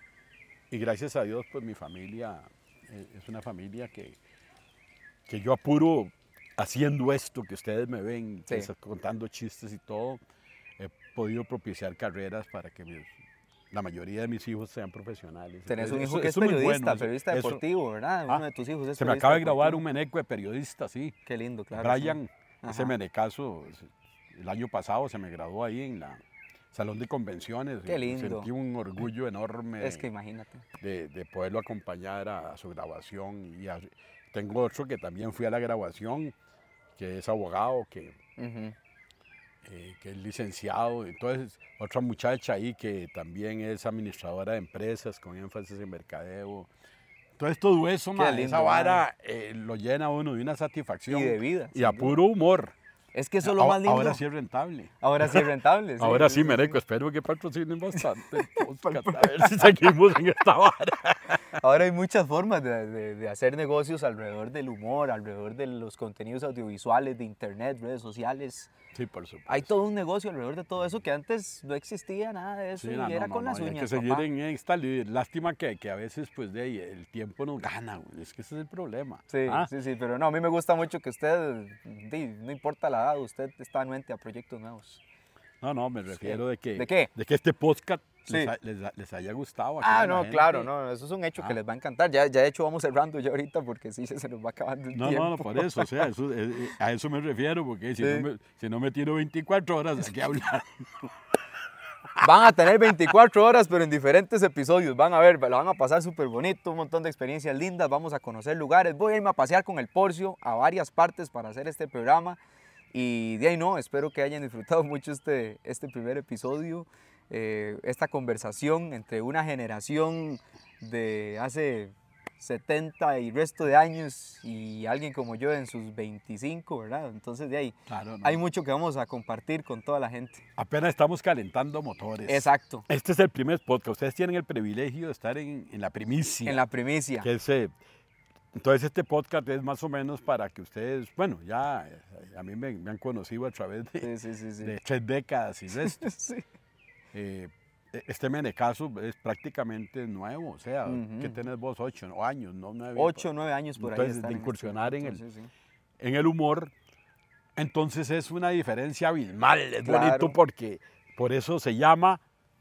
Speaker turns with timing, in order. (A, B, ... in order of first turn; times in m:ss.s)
0:00.7-0:04.2 A
0:05.3-0:10.2 A
0:10.8-0:13.1 A
0:13.7-0:17.6 A
0:15.7-0:19.8 B
0:19.0-0:21.1 A
0:21.2-0:22.9 B
0:21.7-0:26.2 A
0:26.7-0:30.0 A
0:27.8-0:28.5 B
0:29.8-0:30.6 B
0:30.8-0:36.3 A
0:37.0-0:38.2 A
0:38.4-0:38.7 B
0:39.6-0:46.7 A
0:47.4-0:52.7 A
0:48.2-0:49.0 B
0:51.1-0:52.2 B
0:53.1-0:54.2 B
0:53.4-0:55.5 A
0:55.0-0:56.8 B
0:56.0-1:01.4 A
0:58.0-0:59.7 B
1:01.5-1:08.7 B
1:08.9-1:09.7 A
1:09.5-1:14.3 B
1:12.7-1:19.7 A
1:19.3-1:25.0 B
1:25.6-1:30.7 A
1:26.2-1:27.1 B
1:29.8-1:36.0 B
1:34.9-1:41.1 A
1:42.2-1:52.4 B
1:52.9-2:10.4 B
2:07.9-2:08.4 A
2:10.6-2:16.6 A
2:12.2-2:12.8 B
2:16.4-2:17.3 B
2:17.2-2:17.8 A
2:18.5-2:24.1 A
2:24.0-2:24.7 B
2:24.6-2:26.0 A
2:25.7-2:26.4 B
2:27.1-2:33.3 A
2:30.8-2:31.4 B
2:33.0-2:35.5 B
2:33.8-2:35.2 A
2:36.0-2:36.7 A
2:37.6-2:42.2 A
2:39.8-2:40.4 B